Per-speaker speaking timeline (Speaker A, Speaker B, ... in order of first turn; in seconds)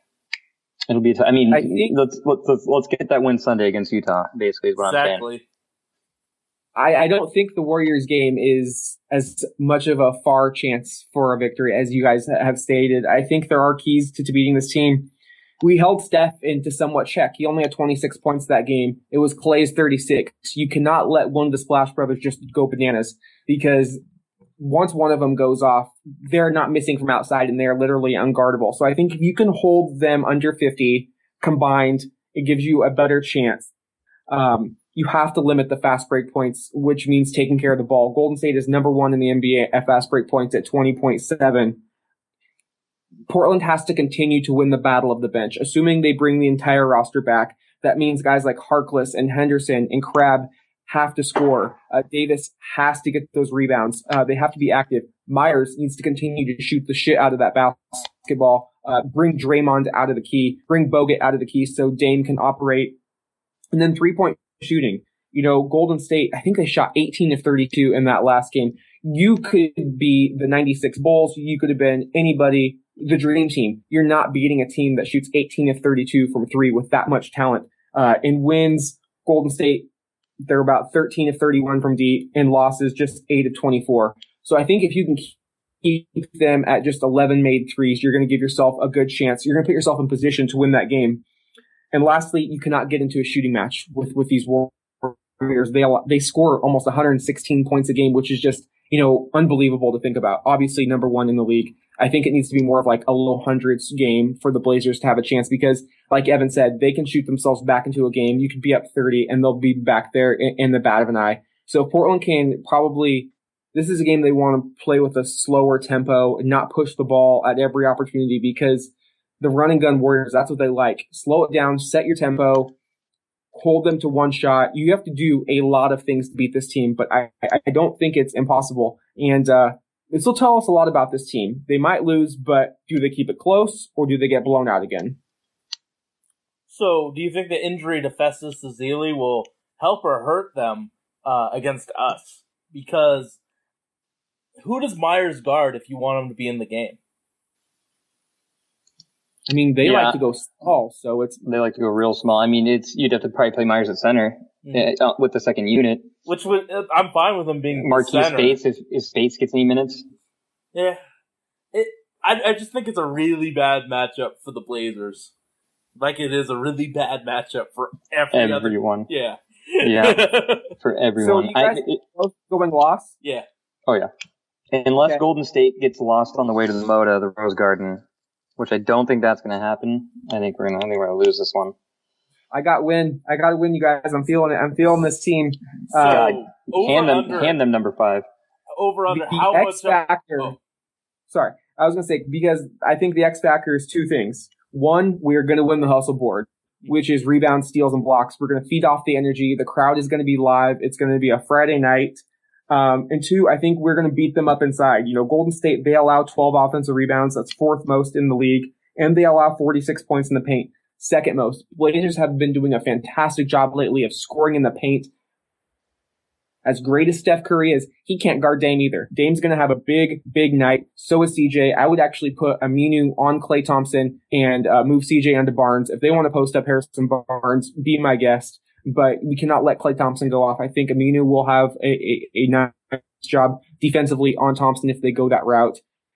Speaker A: 0.9-5.2, 149.8-150.2, 151.4-156.1, 157.8-160.0, 168.3-169.1, 169.8-170.2, 170.8-172.0, 174.7-178.0, 178.6-181.7, 186.0-188.2
Speaker B: 1.5-1.9, 6.7-15.1, 15.6-24.0, 24.6-33.7, 34.3-41.8, 43.3-63.0, 63.7-79.9, 80.5-91.2, 91.9-122.7, 123.5-135.2, 149.5-151.4, 171.2-173.1, 182.5-186.3, 189.1-190.6, 191.3-215.1, 216.6-235.8
Speaker C: 4.8-5.4, 136.7-143.4, 144.6-147.0, 156.2-158.6, 160.7-161.0, 161.7-165.3, 165.9-170.7, 185.9-187.6, 188.7-190.5